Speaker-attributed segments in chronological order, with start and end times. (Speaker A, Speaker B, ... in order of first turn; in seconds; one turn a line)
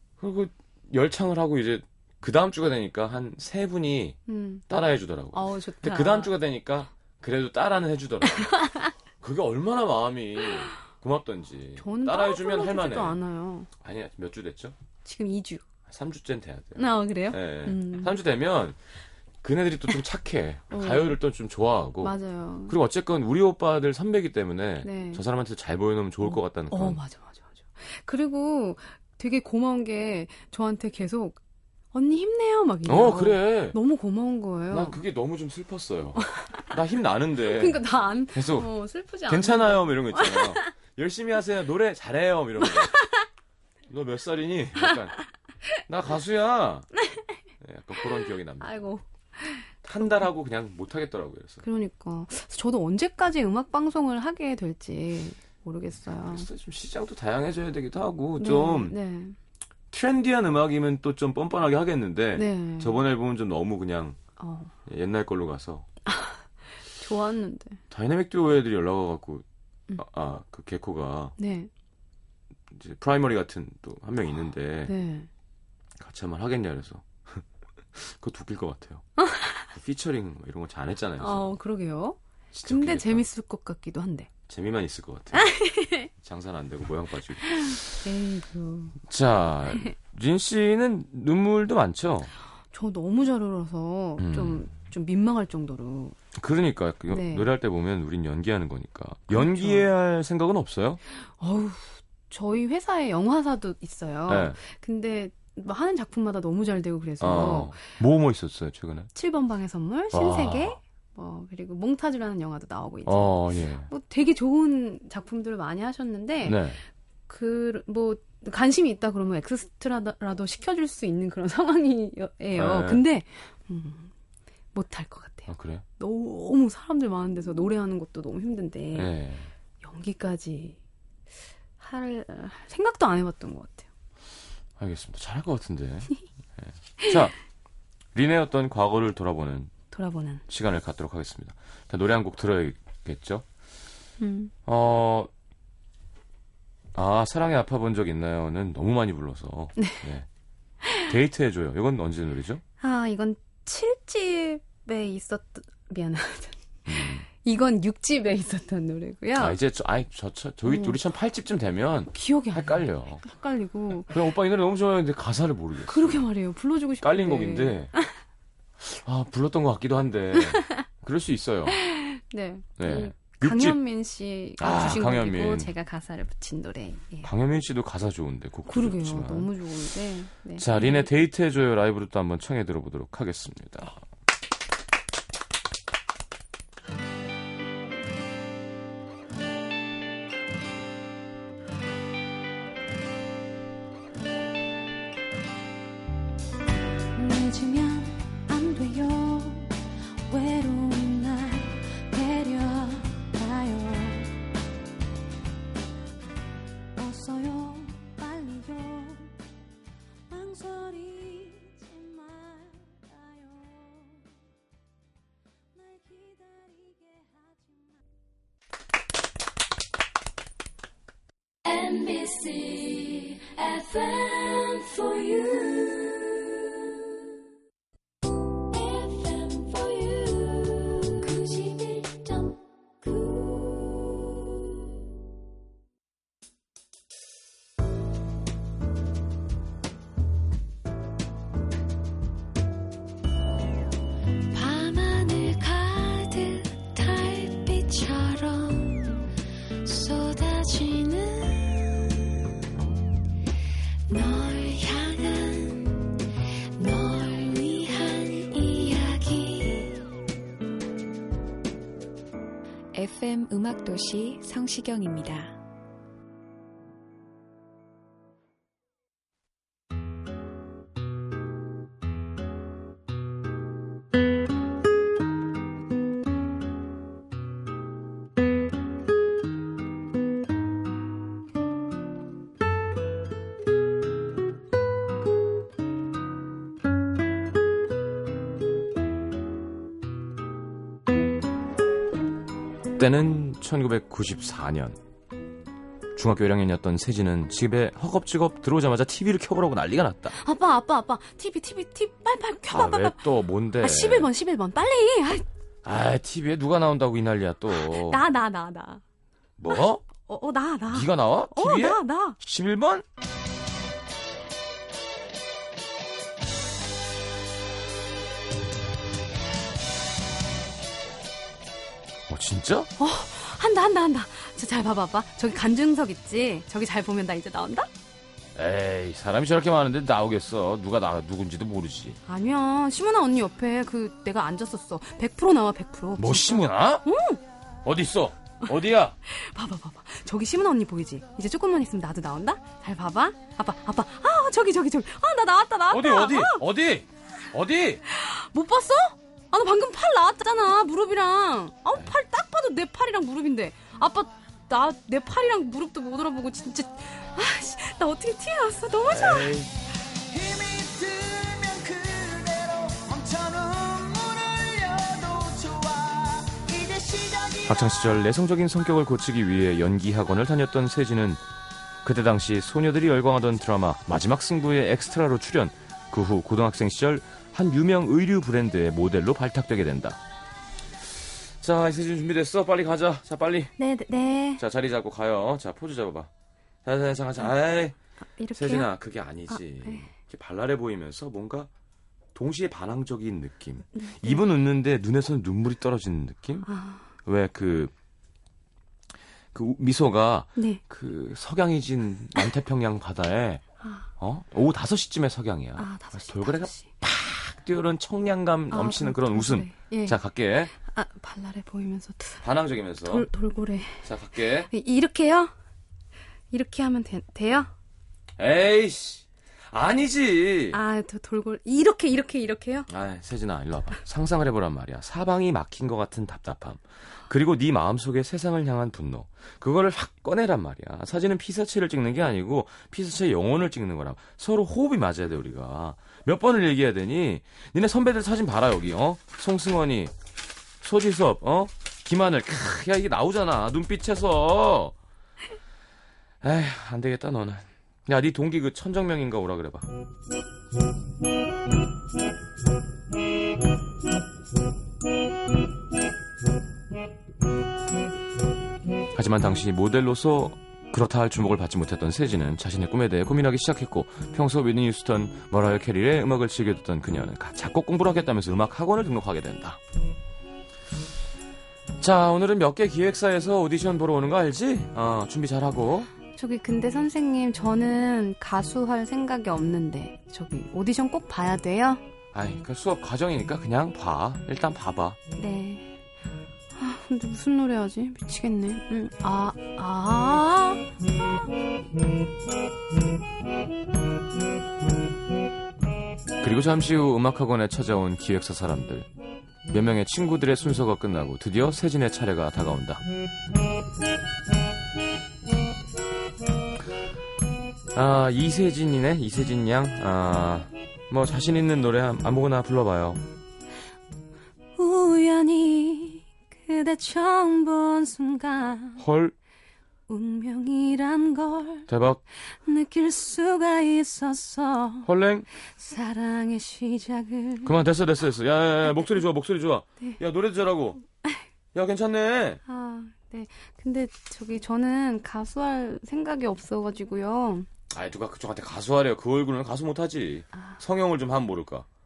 Speaker A: 0.2-4.2
Speaker B: 4.3-4.7
Speaker A: 4.7-8.7
Speaker B: 5.3-6.3
Speaker B: 8.4-8.9
Speaker A: 9.2-13.2
Speaker B: 11.8-13.7
Speaker A: 13.8-14.7
Speaker B: 15.0-15.6
Speaker A: 15.9-18.8
Speaker B: 16.8-18.1
Speaker A: 19.4-22.1
Speaker B: 20.7-21.2
Speaker B: 22.0-22.8
Speaker A: 22.7-27.0
Speaker B: 24.8-25.2
Speaker B: 26.2-31.4
Speaker B: 31.9-35.0
Speaker A: 32.9-33.8
Speaker A: 34.7-38.7
Speaker B: 36.3-36.7
Speaker B: 37.4-40.7
Speaker A: 39.3-42.9
Speaker B: 42.6-43.2
Speaker A: 43.9-45.2
Speaker A: 45.9-46.9
Speaker B: 47.0-47.2
Speaker A: 47.6-48.8
Speaker B: 48.6-49.6
Speaker A: 49.8-51.6
Speaker B: 51.6-56.5
Speaker A: 56.2-59.0
Speaker B: 58.4-59.4
Speaker A: 59.9-64.2
Speaker B: 62.3-63.0
Speaker B: 64.4-64.7
Speaker A: 64.8-65.9
Speaker B: 66.0-67.8
Speaker A: 67.9-69.4
Speaker A: 70.0-71.3
Speaker B: 71.4-71.7
Speaker A: 72.7-74.9
Speaker B: 74.8-75.3
Speaker A: 76.0-79.0
Speaker B: 79.2-79.7
Speaker A: 79.7-81.5
Speaker B: 81.2-84.3
Speaker A: 82.5-83.3
Speaker A: 84.5-85.5
Speaker B: 85.3-86.1
Speaker A: 86.2-88.1
Speaker B: 87.4-89.0
Speaker A: 89.0-92.3
Speaker B: 92.7-96.2
Speaker A: 94.2-94.7
Speaker A: 96.3-101.0
Speaker B: 97.1-97.5
Speaker B: 99.3-99.9
Speaker B: 101.4-107.9
Speaker A: 104.3-104.6
Speaker A: 107.2-109.1
Speaker B: 109.1-116.7
Speaker A: 110.1-110.8
Speaker A: 113.0-113.9
Speaker A: 116.4-116.8
Speaker B: 117.3-124.1
Speaker A: 122.5-123.0
Speaker B: 124.7-129.1
Speaker A: 125.5-125.8
Speaker A: 128.9-129.5
Speaker B: 129.8-130.8
Speaker B: 131.8-133.9
Speaker A: 134.8-137.3
Speaker A: 138.1-139.7
Speaker B: 139.9-140.4
Speaker A: 140.5-143.4
Speaker B: 144.2-144.5
Speaker A: 144.7-145.3
Speaker A: 146.9-150.3
Speaker B: 149.8-150.0
Speaker A: 151.0-152.6
Speaker B: 152.8-159.6
Speaker A: 156.9-157.2
Speaker A: 159.4-163.2
Speaker B: 160.6-161.0
Speaker B: 162.1-164.2
Speaker A: 164.1-166.2
Speaker B: 165.9-168.1
Speaker A: 167.0-167.9
Speaker A: 168.8-171.8
Speaker B: 170.4-170.8
Speaker B: 171.7-177.3
Speaker A: 172.8-173.8
Speaker A: 174.6-175.7
Speaker A: 177.2-179.5
Speaker B: 178.7-181.1
Speaker A: 180.6-184.0
Speaker B: 197.1-199.8
Speaker B: 200.3-204.3
Speaker B: 206.9-209.3
Speaker B: 210.3-214.3
Speaker B: 215.7-217.8
Speaker C: 221.6-226.8
Speaker C: 228.7-234.3
Speaker C: 244.5-249.2
Speaker C: 249.8-252.4
Speaker C: 254.1-256.1
Speaker C: 256.8-260.0
Speaker C: 262.9-265.6
Speaker A: 292.9-295.0
Speaker A: 296.1-300.4
Speaker B: 300.4-303.2
Speaker A: 302.7-304.3
Speaker B: 303.8-305.4
Speaker A: 305.8-308.2
Speaker B: 307.7-309.0
Speaker A: 309.6-310.0
Speaker B: 309.7-312.4
Speaker A: 310.9-313.0
Speaker A: 322.3-322.9
Speaker B: 323.0-327.9
Speaker A: 328.5-332.2
Speaker B: 332.2-337.4
Speaker A: 336.2-337.1
Speaker A: 337.8-339.1
Speaker B: 339.3-346.6
Speaker A: 345.9-348.0
Speaker B: 348.1-359.6
Speaker A: 359.1-359.7
Speaker D: 360.3-368.0
Speaker A: 367.6-371.4
Speaker A: 372.0-380.2
Speaker A: 381.6-383.7
Speaker B: 383.8-384.6
Speaker A: 384.6-386.3
Speaker A: 386.8-387.9
Speaker B: 388.4-388.9
Speaker A: 388.5-391.7
Speaker B: 389.5-390.1
Speaker A: 392.3-396.7
Speaker B: 393.9-394.4
Speaker B: 396.6-397.1
Speaker A: 397.2-397.9
Speaker A: 399.5-403.6
Speaker B: 400.6-400.8
Speaker B: 403.8-404.1
Speaker A: 404.2-410.7
Speaker B: 405.8-406.9
Speaker B: 408.7-410.2
Speaker B: 410.7-412.4
Speaker A: 412.4-413.3
Speaker B: 413.0-414.1
Speaker A: 414.0-414.7
Speaker B: 414.7-415.5
Speaker B: 416.5-417.7
Speaker A: 418.4-420.8
Speaker B: 420.7-422.9
Speaker A: 422.9-440.1
Speaker A: 440.8-444.9
Speaker A: 446.4-449.9
Speaker A: 459.1-469.8
Speaker A: 472.0-476.1
Speaker B: 476.3-482.0
Speaker A: 482.3-485.2
Speaker B: 485.4-486.0
Speaker B: 486.7-490.9
Speaker A: 496.4-499.1
Speaker A: 499.7-503.0
Speaker A: 507.9-513.2
Speaker B: 514.8-519.0
Speaker A: 519.0-519.3
Speaker B: 520.1-525.1
Speaker A: 521.9-522.2
Speaker A: 525.0-525.5
Speaker B: 525.6-527.8
Speaker A: 527.6-531.0
Speaker A: 531.7-532.6
Speaker B: 532.6-537.7
Speaker A: 537.9-541.9
Speaker B: 540.5-540.8